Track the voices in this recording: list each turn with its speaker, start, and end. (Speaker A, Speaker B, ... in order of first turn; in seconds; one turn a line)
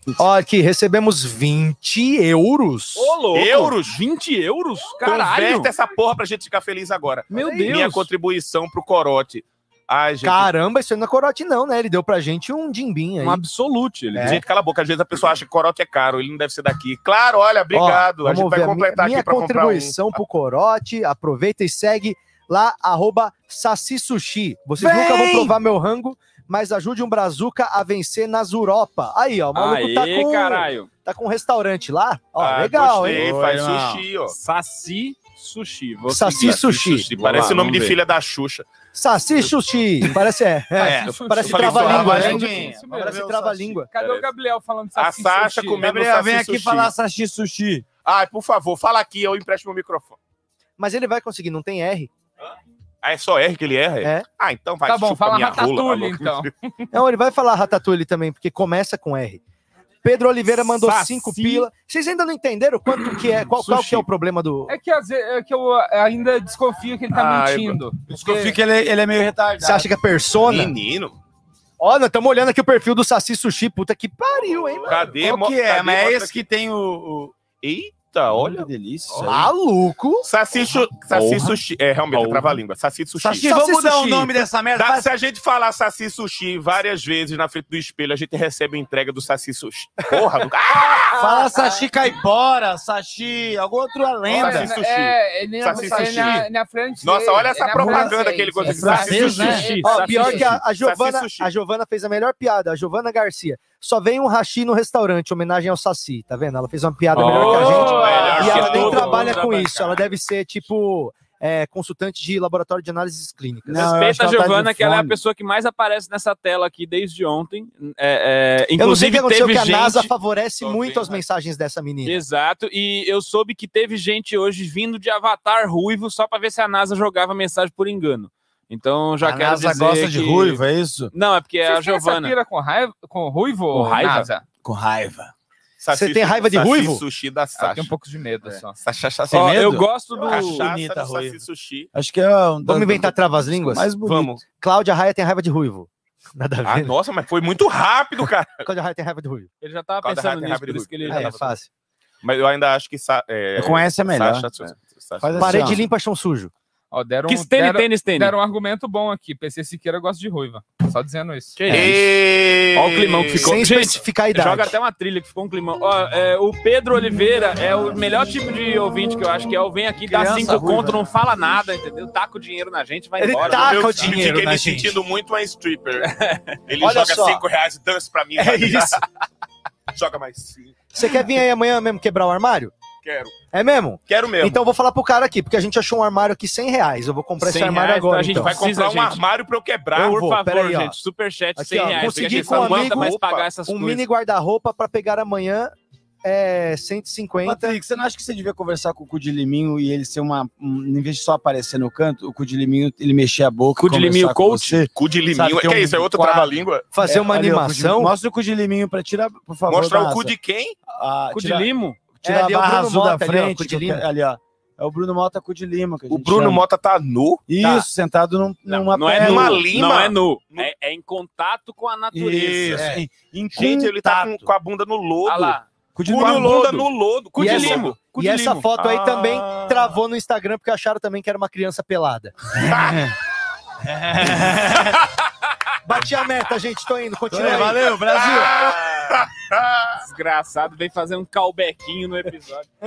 Speaker A: 0.2-3.2
Speaker B: 2.9-5.7
Speaker C: 3.3-4.0
Speaker C: 5.0-10.5
Speaker B: 7.3-8.1
Speaker A: 7.3-7.8
Speaker A: 10.2-13.4
Speaker B: 13.2-14.4
Speaker A: 14.1-14.4
Speaker C: 14.2-20.2
Speaker A: 17.7-33.2
Speaker D: 24.8-25.6
Speaker B: 29.5-30.9
Speaker C: 32.4-34.3
Speaker D: 33.0-34.0
Speaker B: 34.3-38.0
Speaker A: 36.1-37.1
Speaker C: 36.8-38.7
Speaker A: 38.9-43.9
Speaker D: 40.8-43.8
Speaker E: 40.8-43.2
Speaker C: 41.3-42.5
Speaker E: 43.9-45.9
Speaker C: 44.0-44.2
Speaker C: 45.0-46.9
Speaker D: 45.8-47.9
Speaker C: 48.0-50.2
Speaker A: 50.8-52.1
Speaker C: 53.0-56.5
Speaker E: 54.8-56.8
Speaker A: 56.9-59.4
Speaker A: 60.0-64.7
Speaker B: 60.5-61.7
Speaker B: 63.5-64.0
Speaker E: 64.7-68.5
Speaker C: 67.2-67.7
Speaker D: 68.1-69.9
Speaker A: 69.6-70.7
Speaker C: 70.4-71.2
Speaker A: 71.8-75.2
Speaker C: 74.8-76.4
Speaker D: 75.1-77.3
Speaker C: 77.6-78.7
Speaker D: 78.3-79.5
Speaker A: 79.2-80.2
Speaker C: 80.2-83.5
Speaker B: 81.1-81.5
Speaker D: 81.2-81.5
Speaker B: 82.1-82.5
Speaker D: 83.2-85.1
Speaker A: 83.4-84.3
Speaker C: 84.7-91.3
Speaker D: 91.1-94.8
Speaker C: 94.3-96.5
Speaker E: 94.3-100.5
Speaker D: 95.7-96.4
Speaker C: 97.0-101.5
Speaker D: 97.8-99.8
Speaker B: 98.7-100.6
Speaker A: 99.1-113.9
Speaker B: 107.1-110.0
Speaker D: 107.3-109.2
Speaker C: 107.3-109.3
Speaker D: 113.7-115.2
Speaker B: 113.8-120.1
Speaker A: 118.8-122.2
Speaker C: 120.6-121.2
Speaker B: 122.0-132.3
Speaker D: 129.2-131.1
Speaker E: 131.6-134.4
Speaker B: 133.7-134.3
Speaker D: 134.6-135.3
Speaker C: 135.8-137.9
Speaker A: 135.9-137.0
Speaker E: 137.6-138.8
Speaker C: 138.8-139.5
Speaker D: 139.3-141.4
Speaker B: 139.3-140.7
Speaker C: 140.1-141.9
Speaker D: 141.9-144.4
Speaker A: 142.6-143.9
Speaker C: 144.0-144.4
Speaker A: 144.5-146.9
Speaker C: 146.6-148.7
Speaker A: 148.6-149.5
Speaker B: 149.6-151.5
Speaker C: 150.0-151.5
Speaker A: 151.1-151.7
Speaker C: 152.2-155.8
Speaker D: 153.6-154.5
Speaker D: 155.2-155.8
Speaker A: 155.4-156.5
Speaker E: 156.9-161.6
Speaker B: 157.3-158.3
Speaker B: 161.6-162.0
Speaker C: 161.7-163.6
Speaker B: 162.7-174.1
Speaker A: 163.4-164.7
Speaker D: 170.1-171.0
Speaker A: 173.2-174.9
Speaker C: 173.3-176.1
Speaker B: 176.0-176.6
Speaker C: 176.7-179.0
Speaker A: 176.8-177.4
Speaker A: 178.4-179.0
Speaker C: 179.9-180.8
Speaker A: 180.9-182.7
Speaker C: 183.0-183.3
Speaker A: 183.5-188.6
Speaker C: 184.1-184.6
Speaker B: 187.4-189.2
Speaker C: 188.3-190.2
Speaker A: 189.9-190.9
Speaker B: 190.0-194.0
Speaker A: 191.6-197.8
Speaker C: 191.8-193.5
Speaker D: 197.4-210.3
Speaker B: 203.8-204.9
Speaker C: 204.9-206.9
Speaker A: 206.9-208.1
Speaker C: 209.7-210.8
Speaker D: 210.9-211.7
Speaker B: 211.3-212.0
Speaker D: 212.2-216.6
Speaker A: 212.2-214.0
Speaker C: 216.1-217.7
Speaker D: 217.5-219.8
Speaker C: 218.7-220.7
Speaker B: 218.9-223.0
Speaker D: 222.1-224.5
Speaker C: 223.5-228.0
Speaker B: 225.2-225.6
Speaker D: 225.9-226.9
Speaker B: 226.2-226.6
Speaker B: 227.3-228.7
Speaker A: 227.4-232.3
Speaker C: 228.8-229.3
Speaker D: 229.4-229.8
Speaker D: 232.6-233.1
Speaker C: 232.7-233.0
Speaker D: 233.8-235.0
Speaker A: 235.8-238.4
Speaker D: 237.3-238.7
Speaker C: 238.1-240.0
Speaker B: 240.0-242.7